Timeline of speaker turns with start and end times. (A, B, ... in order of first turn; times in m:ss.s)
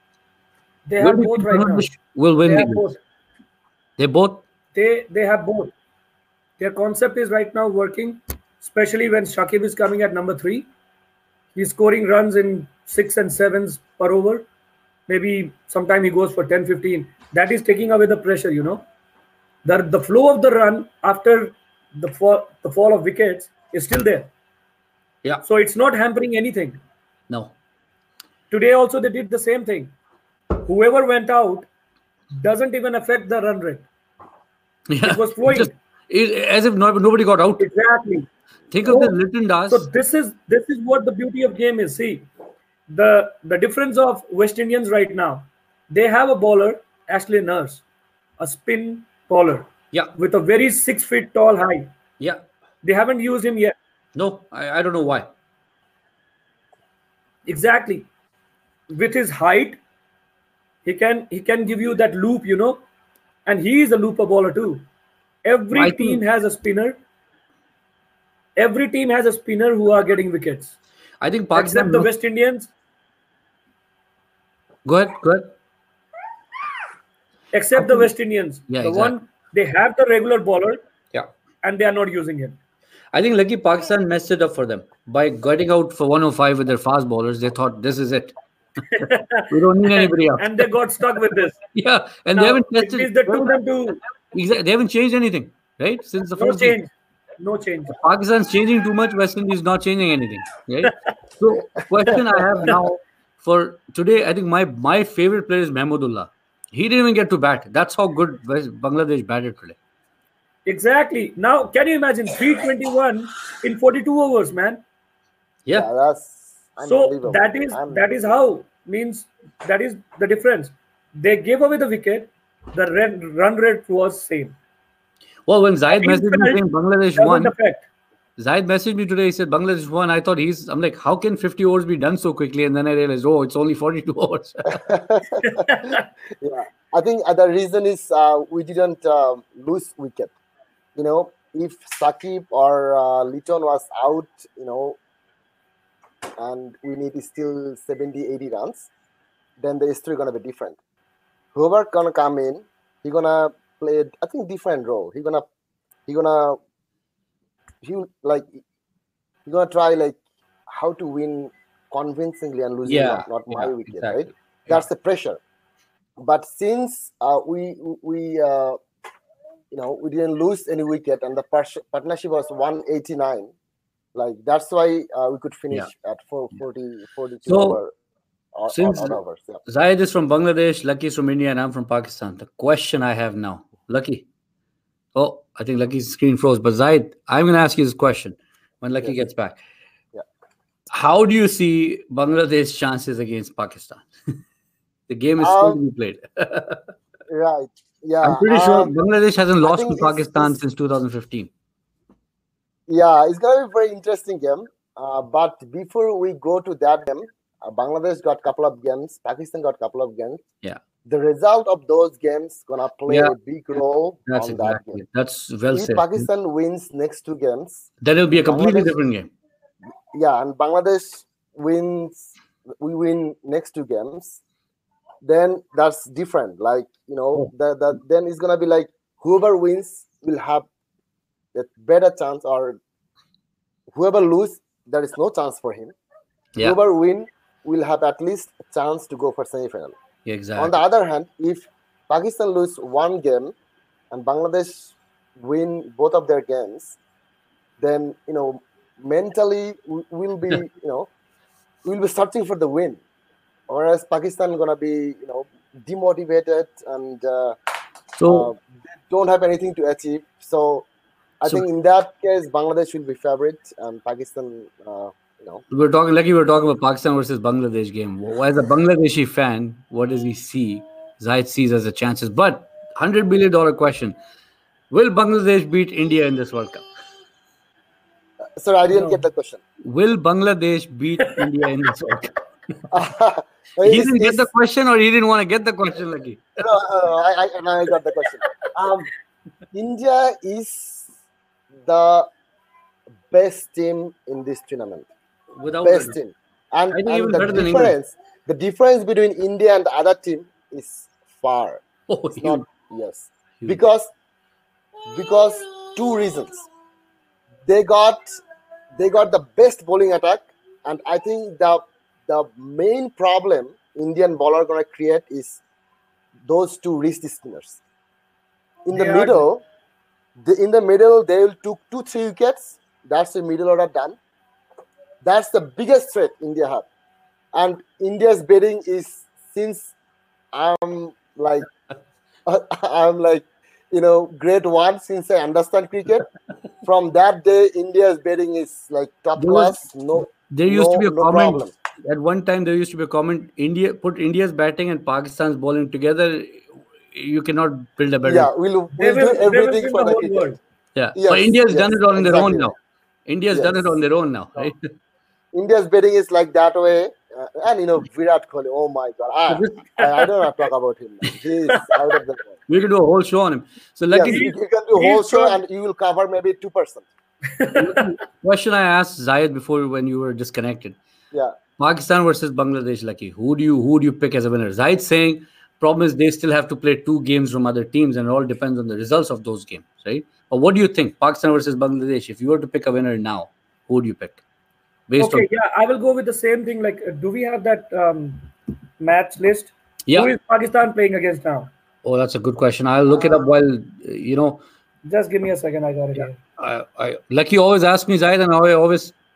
0:00.9-0:01.9 A
0:01.0-0:02.8 B
0:02.4-0:03.0 A
0:04.0-0:04.4 B
0:04.7-0:05.7 A
0:06.6-0:10.7 A
0:11.6-0:14.5 A
0:15.1-0:18.8 A
0:19.6-0:24.3 A
0:25.4-0:26.8 A
0:27.3-0:27.6 B
0:28.5-0:29.9 A
0:30.6-0:31.7 A
0:32.3-0:33.8 A
0:34.9-0:37.7 B
0:35.0-0:35.7 A
0:37.6-0:38.3 A
0:38.7-0:39.9 B
0:38.8-0:39.2 A
0:39.7-0:42.3 A
0:42.9-0:47.8 A
0:48.4-0:52.0 A
0:52.8-0:53.8 A
0:54.2-0:55.3 B
0:57.5-0:58.1 A
0:58.9-0:59.8 A
1:00.8-1:02.8 A
1:03.5-1:04.8 A
1:05.4-1:07.0 A
1:05.7-1:06.2 B
1:08.6-1:10.8 A
1:11.2-1:12.1 B
1:11.5-1:12.7 A
1:14.8-1:15.5 B
1:17.5-1:20.8 A
1:17.8-1:18.1 B
1:18.7-1:19.1 B
1:21.6-1:22.6 A
1:23.1-1:28.3 B
1:28.9-1:31.6 A
1:29.5-1:30.7 B
1:31.7-1:33.6 B
1:32.3-1:34.0 A
1:34.3-1:36.8 B
1:36.4-1:38.0 A
1:37.9-1:49.8 B
1:42.1-1:42.4 C
1:50.7-1:54.8 A
1:55.7-1:58.3 C
1:56.8-2:04.6 A
2:05.5-2:07.5 B
2:05.9-2:06.6 A
2:07.2-2:07.9 A
2:08.4-2:14.8 B
2:14.8-2:15.5 C
2:15.4-2:16.1 A
2:16.4-2:20.3 C
2:21.0-2:25.0 C
2:26.4-2:28.9 C
2:29.6-2:30.8 C
2:31.5-2:35.4 C
2:36.1-2:36.6 C
2:37.8-2:38.6 C
2:39.5-2:45.4 C
2:42.9-2:44.8 B
2:46.2-2:48.8 C
2:49.7-2:53.5 C
2:54.2-2:57.9 C
2:57.5-2:57.8 B
2:58.6-2:59.6 C
2:58.7-3:04.3 B
3:05.2-3:09.6 B
3:10.9-3:14.1 B
3:15.1-3:16.9 B
3:15.4-3:15.8 C
3:17.3-3:18.9 C
3:18.2-3:21.5 B
3:19.6-3:20.6 C
3:22.9-3:30.4 C
3:31.0-3:35.0 C
3:33.1-3:33.4 B
3:34.3-3:36.3 B
3:35.7-3:39.0 C
3:38.0-3:39.3 B
3:40.1-3:44.4 C
3:45.2-3:50.7 C
3:51.5-3:52.8 C
3:53.9-3:55.9 C
3:56.6-4:00.0 C
4:00.3-4:00.8 B
4:00.6-4:03.5 C
4:04.1-4:07.0 C
4:07.8-4:11.1 C
4:11.8-4:13.0 C
4:13.7-4:17.6 C
4:18.2-4:18.5 B
4:18.3-4:20.9 C
4:21.4-4:25.6 C
4:25.7-4:34.2 B
4:34.9-4:36.8 B
4:38.6-4:39.6 C
4:38.9-4:39.2 A
4:39.8-4:42.3 B
4:42.9-4:44.5 C
4:43.8-4:46.6 B
4:46.6-4:49.1 C
4:49.7-4:51.1 C
4:51.8-4:52.3 C
4:53.3-4:55.1 C
4:55.6-4:56.2 B
4:55.8-5:01.8 C
4:56.9-4:58.0 B
5:02.1-5:02.7 B
5:02.4-5:04.1 C
5:05.1-5:06.7 C
5:07.7-5:08.4 C
5:09.0-5:15.6 C
5:16.4-5:17.8 C
5:18.8-5:19.6 C
5:18.9-5:19.4 A
5:20.4-5:24.2 C
5:25.2-5:26.8 C
5:27.5-5:29.9 C
5:30.5-5:31.7 C
5:32.5-5:36.3 C
5:36.8-5:41.7 C
5:39.4-5:48.5 B
5:48.2-5:50.5 C
5:49.0-5:50.6 A
5:51.0-5:52.8 B
5:51.2-5:52.7 C
5:53.3-5:54.8 B
5:53.5-5:54.0 C
5:55.5-6:02.6 C
5:59.5-5:59.8 B
6:02.7-6:04.5 B
6:04.1-6:07.1 C
6:04.3-6:05.6 A
6:07.6-6:08.1 A
6:07.8-6:11.0 B
6:11.8-6:24.4 B
6:25.1-6:25.5 B
6:25.2-6:31.7 A
6:30.1-6:30.3 B
6:32.0-6:34.6 B
6:33.1-6:33.4 C
6:35.1-6:36.4 A
6:36.2-6:39.2 B